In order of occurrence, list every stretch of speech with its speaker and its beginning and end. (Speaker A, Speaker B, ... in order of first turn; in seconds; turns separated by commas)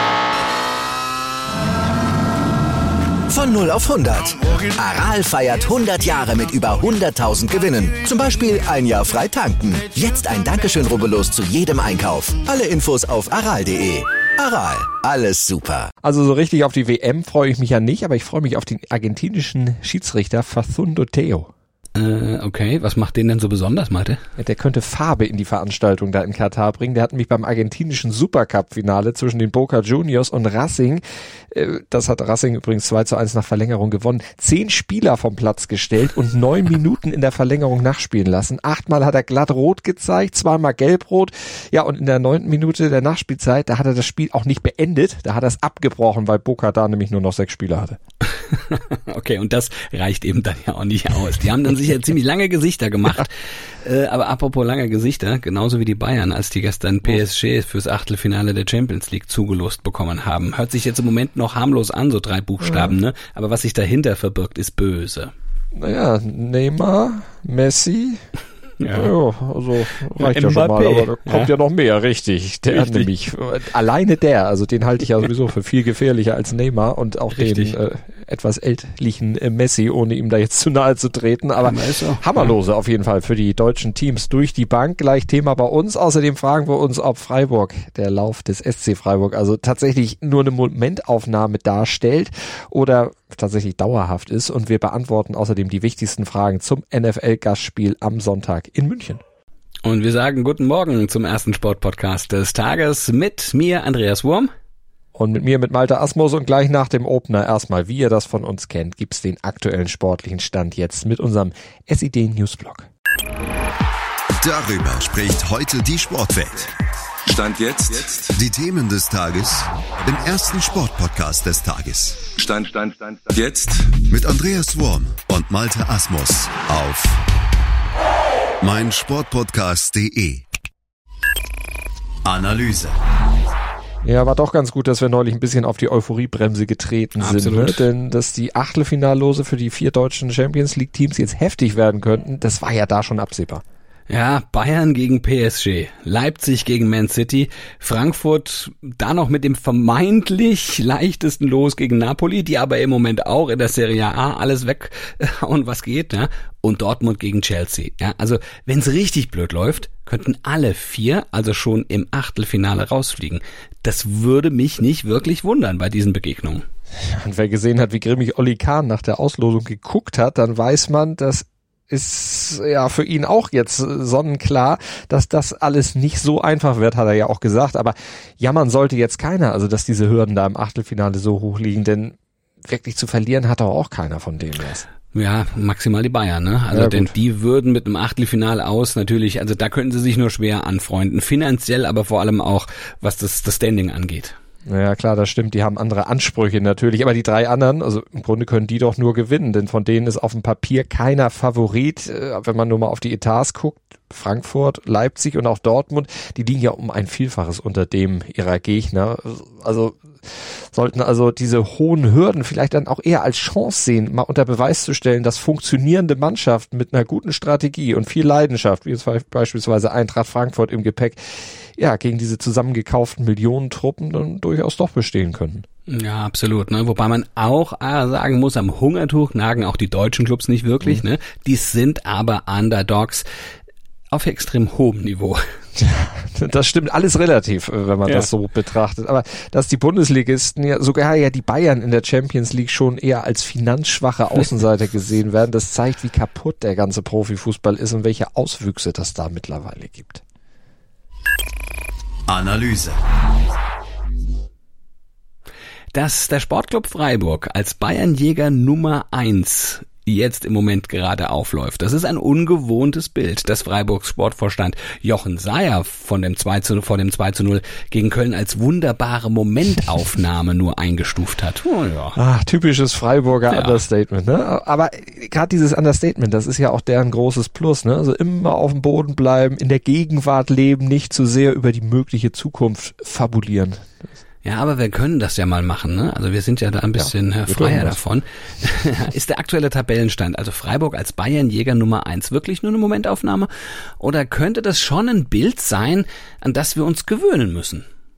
Speaker A: 3.3-15.9, Speaker B: 16.0-21.5, Speaker C: 21.9-24.2, Speaker B: 24.4-48.0, Speaker C: 48.4-53.3, Speaker C: 53.8-65.3, Speaker B: 62.6-63.0, Speaker B: 65.8-68.2, Speaker C: 68.8-69.1, Speaker B: 68.9-99.2, Speaker C: 70.2-71.5, Speaker C: 72.7-73.1, Speaker C: 77.3-77.8, Speaker C: 81.6-82.5, Speaker C: 99.8-104.5, Speaker B: 105.2-112.9, Speaker D: 114.4-116.7, Speaker E: 117.3-118.3, Speaker D: 118.3-122.2, Speaker E: 122.4-124.0, Speaker D: 124.1-127.2, Speaker D: 128.6-130.4, Speaker D: 132.2-132.9, Speaker B: 134.0-143.6, Speaker C: 137.2-137.9, Speaker C: 144.1-166.7, Speaker B: 167.2-184.9, Speaker C: 185.1-194.4, Speaker B: 186.7-187.1, Speaker B: 194.7-221.2, Speaker B: 221.8-225.7, Speaker C: 225.9-233.3, Speaker C: 234.1-235.4, Speaker B: 235.8-250.2, Speaker D: 252.3-253.0, Speaker C: 255.9-272.2, Speaker B: 272.2-283.9, Speaker C: 273.5-273.8, Speaker C: 284.4-297.9, Speaker B: 287.0-288.0